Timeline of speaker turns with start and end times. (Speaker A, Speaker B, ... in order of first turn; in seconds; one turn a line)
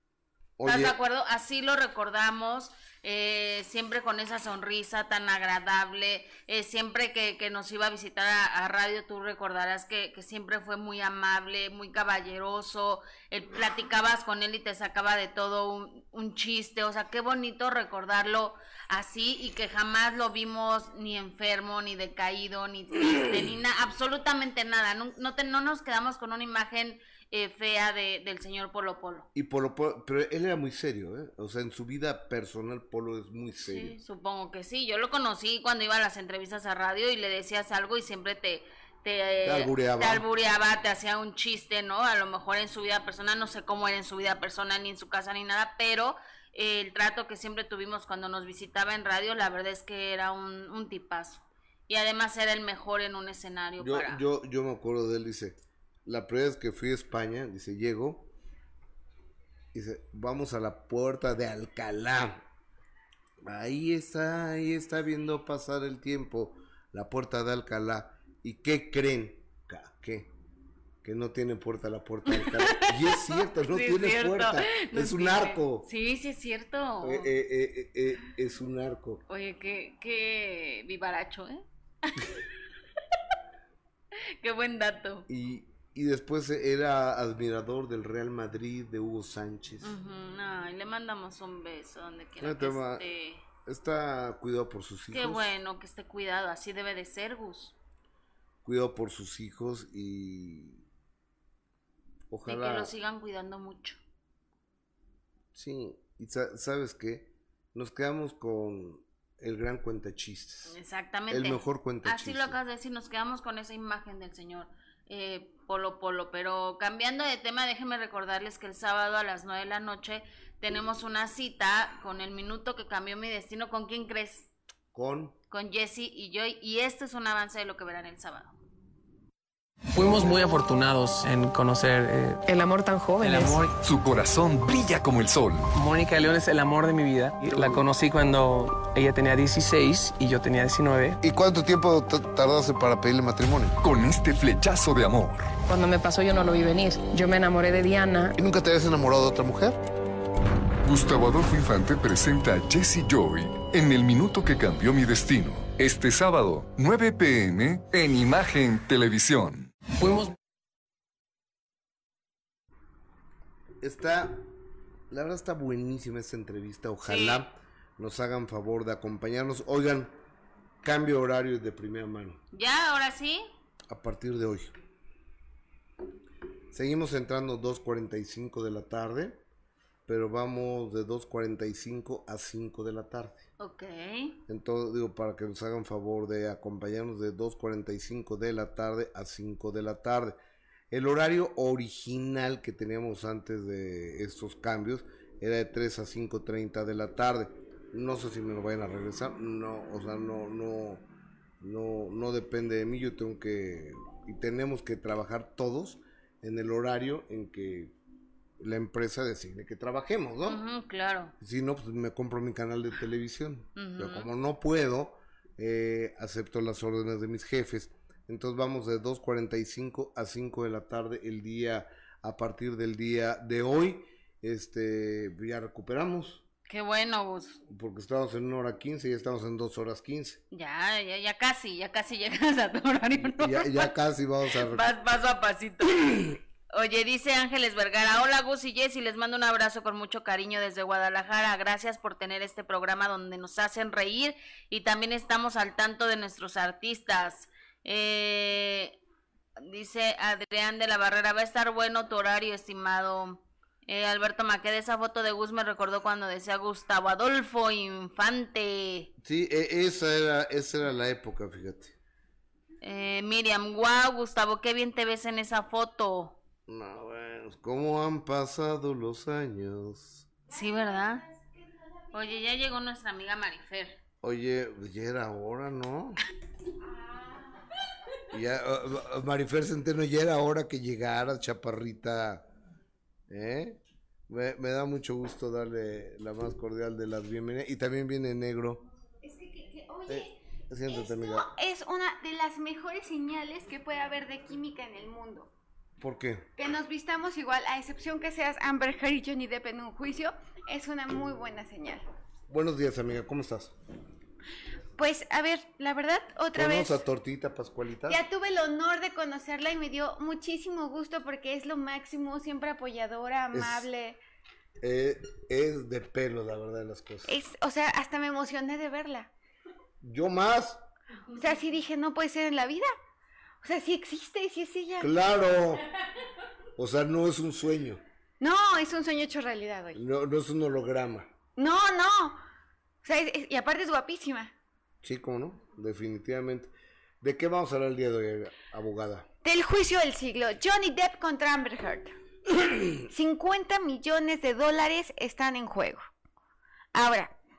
Speaker A: 0.6-1.0
Speaker B: 0.6-29.3
Speaker A: 29.3-34.0
Speaker B: 33.6-54.2
Speaker A: 39.4-40.2
Speaker A: 53.8-58.3
Speaker A: 59.7-62.4
Speaker A: 63.4-70.3
Speaker A: 71.0-75.9
Speaker B: 72.3-77.3
Speaker A: 77.0-79.2
Speaker B: 79.3-82.4
Speaker B: 84.4-85.3
Speaker A: 85.3-90.0
Speaker B: 89.8-93.4
Speaker A: 92.4-93.0
Speaker A: 93.6-95.5
Speaker B: 95.1-97.7
Speaker A: 98.6-100.8
Speaker A: 102.3-102.9
Speaker B: 102.5-104.0
Speaker A: 105.5-110.8
Speaker B: 110.7-124.5
Speaker A: 111.3-112.6
Speaker A: 124.9-125.3
Speaker B: 125.5-128.5
Speaker C: 129.9-132.4
Speaker D: 132.4-133.7
Speaker C: 133.2-133.7
Speaker E: 133.8-135.7
Speaker C: 135.7-141.2
Speaker A: 141.2-143.8
Speaker E: 143.8-145.5
Speaker D: 145.7-148.3
Speaker A: 148.3-149.8
Speaker E: 150.8-159.7
Speaker C: 160.0-160.2
Speaker A: 163.8-164.4
Speaker A: 165.1-170.1
Speaker B: 167.0-167.4
Speaker A: 170.8-172.4
Speaker B: 172.5-173.4
Speaker A: 173.9-174.7
Speaker A: 176.7-179.4
Speaker A: 180.1-183.5
Speaker B: 183.6-184.4
Speaker A: 184.5-190.4
Speaker A: 190.9-201.1
Speaker A: 201.6-207.9
Speaker A: 208.6-210.6
Speaker B: 210.4-211.3
Speaker A: 211.4-226.4
Speaker B: 213.8-214.3
Speaker B: 226.7-227.6
Speaker A: 227.7-230.4
Speaker B: 230.5-233.9
Speaker A: 233.1-234.9
Speaker B: 234.6-236.1
Speaker B: 236.7-249.0
Speaker B: 249.6-259.1
Speaker A: 259.2-261.9
Speaker B: 262.8-266.4
Speaker A: 266.7-270.3
Speaker B: 270.5-271.2
Speaker B: 272.1-274.0
Speaker A: 274.2-276.2
Speaker A: 278.3-282.5
Speaker A: 283.3-288.8
Speaker F: 289.2-295.5
Speaker A: 290.1-291.5
Speaker A: 296.0-296.5
Speaker F: 296.6-302.0
Speaker A: 302.5-303.7
Speaker F: 305.0-307.0
Speaker A: 306.5-308.2
Speaker F: 308.1-314.2
Speaker A: 313.5-313.9
Speaker A: 314.8-317.3
Speaker F: 317.3-319.3
Speaker A: 320.0-320.8
Speaker F: 321.4-322.9
Speaker F: 323.6-325.1
Speaker A: 325.0-325.8
Speaker A: 326.8-328.0
Speaker F: 328.4-330.0
Speaker A: 329.9-331.3
Speaker F: 331.6-332.4
Speaker F: 333.0-334.5
Speaker A: 335.0-339.3
Speaker F: 339.4-342.1
Speaker F: 343.1-346.0
Speaker F: 346.9-347.4